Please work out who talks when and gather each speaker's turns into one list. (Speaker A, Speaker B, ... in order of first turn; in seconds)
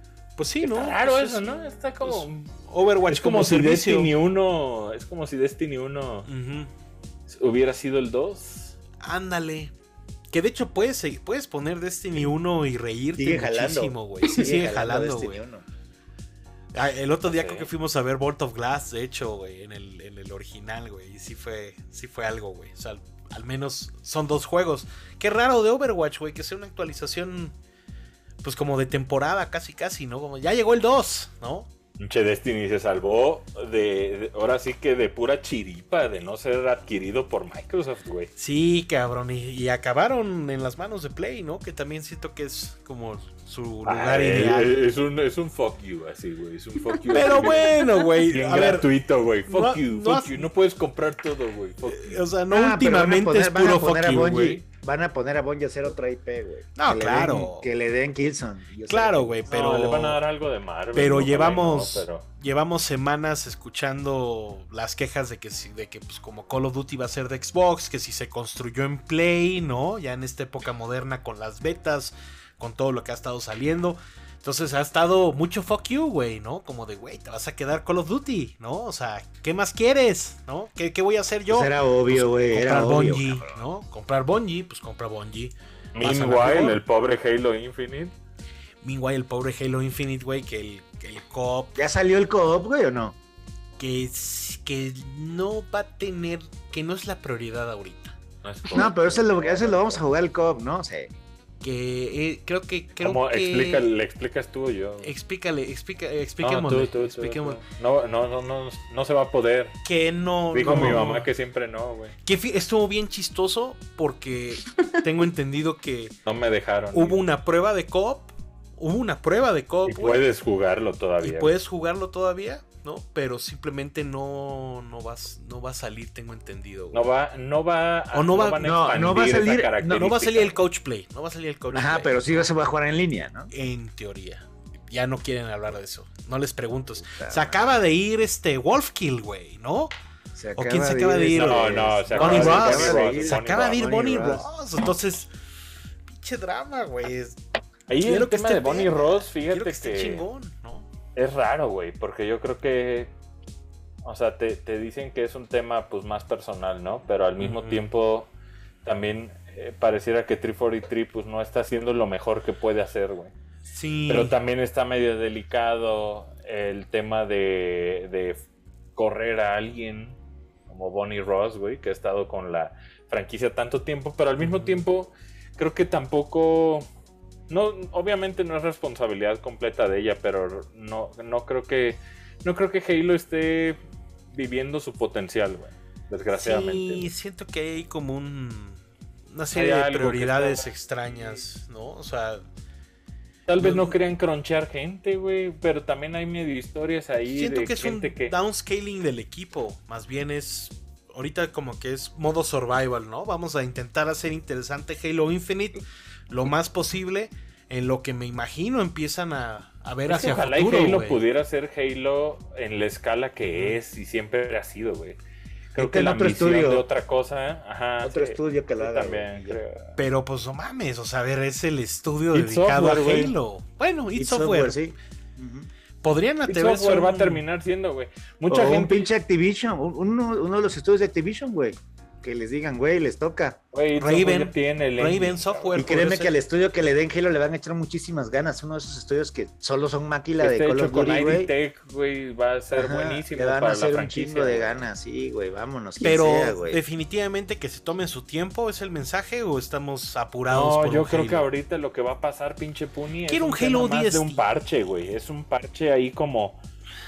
Speaker A: 0.4-4.1, 6.2-6.7, 9.0-9.7, 10.3-15.4, 16.7-27.5, 28.4-31.7, 38.4-44.8, 47.1-48.9, 49.5-50.5, 51.9-54.6, 56.8-57.7, 58.9-60.2, 60.9-86.8, 88.8-91.8, 93.8-98.2, 101.6-103.8, 105.0-107.6, 109.8-111.3, 112.2-116.1, 116.9-120.2, 121.2-127.1, 128.1-128.8, 129.8-132.5, 133.5-139.9, 140.6-145.3, 146.1-147.4, 148.0-150.9, 157.4-157.8, 163.7-164.3, 174.4-174.8, 186.3-188.8, 189.3-192.4, 193.6-194.0, 197.3-211.2, 213.4-213.8, 220.0-224.8, 226.0-227.4, 234.0-236.3, 246.0-251.5, 253.3-254.4
Speaker B: 0.6-2.5, 3.1-6.3, 7.3-8.7, 17.3-17.7, 32.0-38.3, 43.9-52.2, 59.5-62.2, 85.9-88.1, 98.4-100.0, 103.0-105.1, 106.4-109.8, 110.5-112.2, 116.2-117.2, 119.9-121.5, 126.9-130.6, 141.3-143.9, 147.9-150.2, 151.2-153.1, 154.0-158.3, 158.8-163.3, 164.1-168.4, 168.9-176.9, 177.5-183.8, 184.3-187.1, 189.5-190.7, 193.5-198.3, 210.1-215.2, 215.7-220.0, 222.3-223.3, 226.5-229.1, 233.7-235.9, 240.4-244.8, 250.5-256.6
Speaker C: 13.2-15.6, 52.5-59.4, 81.5-83.6, 91.8-93.2, 98.7-101.1, 110.7-111.0, 128.6-130.1, 131.7-133.5, 137.0-137.6, 140.3-144.5, 215.8-216.8, 218.0-219.6, 224.1-225.7, 228.5-233.6, 235.7-241.5, 242.7-246.8